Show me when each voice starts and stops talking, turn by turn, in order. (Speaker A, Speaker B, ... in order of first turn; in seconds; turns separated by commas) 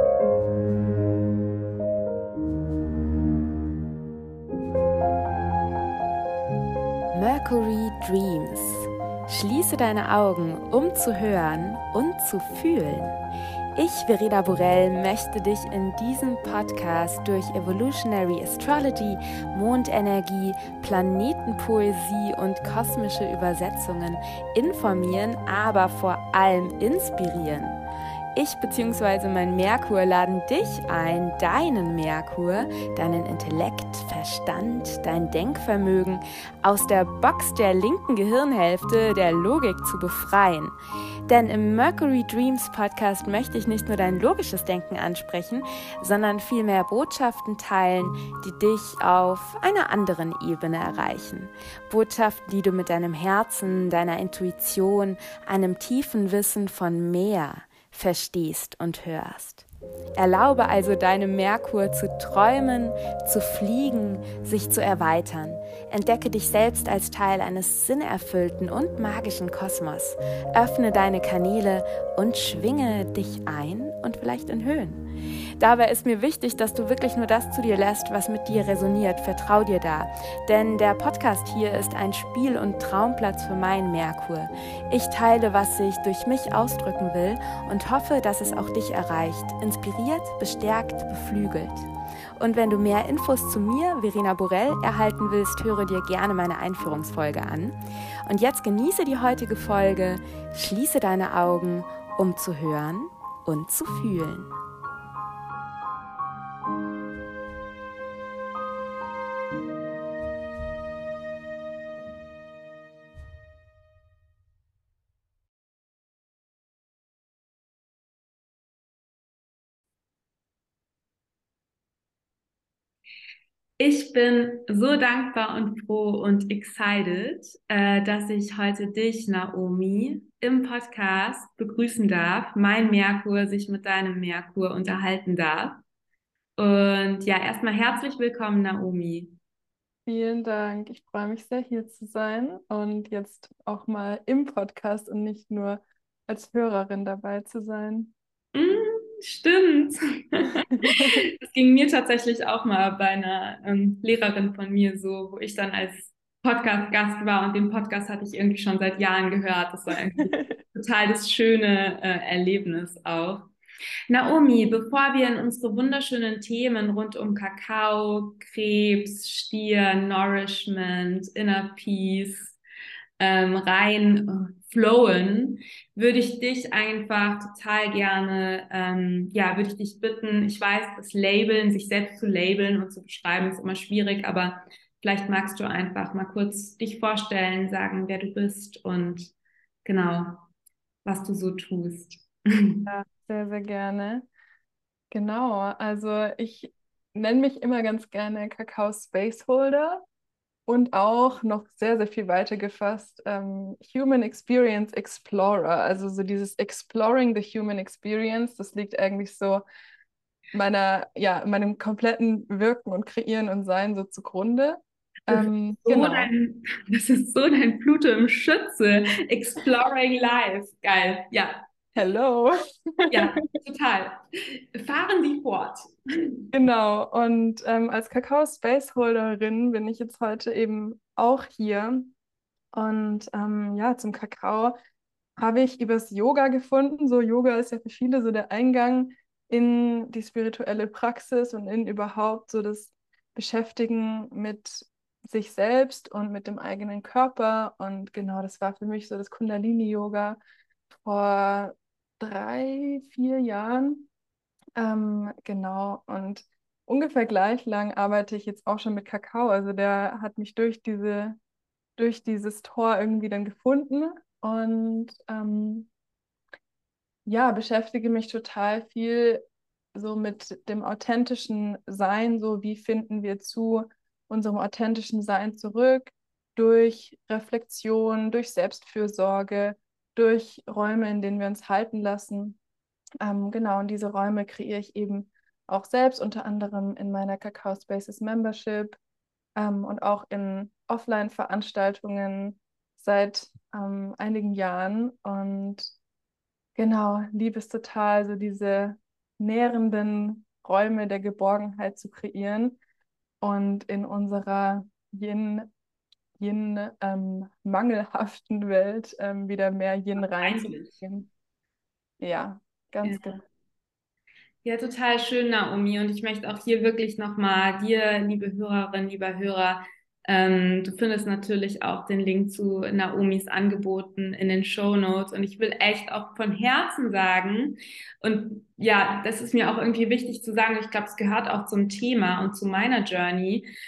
Speaker A: 7.1-13.2, Speaker A: 13.8-27.8, Speaker A: 28.3-40.7, Speaker A: 41.3-75.0, Speaker A: 75.6-91.9, Speaker A: 92.4-97.8, Speaker A: 98.3-104.5, Speaker A: 123.8-135.8, Speaker A: 136.6-139.4, Speaker B: 140.1-148.1, Speaker A: 148.5-163.5, Speaker B: 150.8-151.2, Speaker A: 164.1-172.6, Speaker A: 173.2-189.3, Speaker A: 189.8-190.5, Speaker A: 191.0-192.9, Speaker B: 192.8-194.3, Speaker B: 195.1-200.0, Speaker B: 200.7-209.6, Speaker B: 210.5-216.3, Speaker A: 215.3-221.6, Speaker B: 221.9-223.4, Speaker A: 223.1-226.5, Speaker B: 226.5-232.1, Speaker B: 232.7-234.8, Speaker B: 235.4-250.4, Speaker B: 250.9-254.1, Speaker B: 254.8-261.4, Speaker B: 262.0-265.9, Speaker B: 267.2-269.4, Speaker B: 269.9-282.6, Speaker B: 283.2-289.0, Speaker B: 289.6-295.9, Speaker B: 296.8-302.8, Speaker B: 303.4-305.7, Speaker B: 306.4-311.3, Speaker A: 310.3-310.9, Speaker B: 312.2-313.4, Speaker A: 313.0-313.3, Speaker A: 314.6-333.7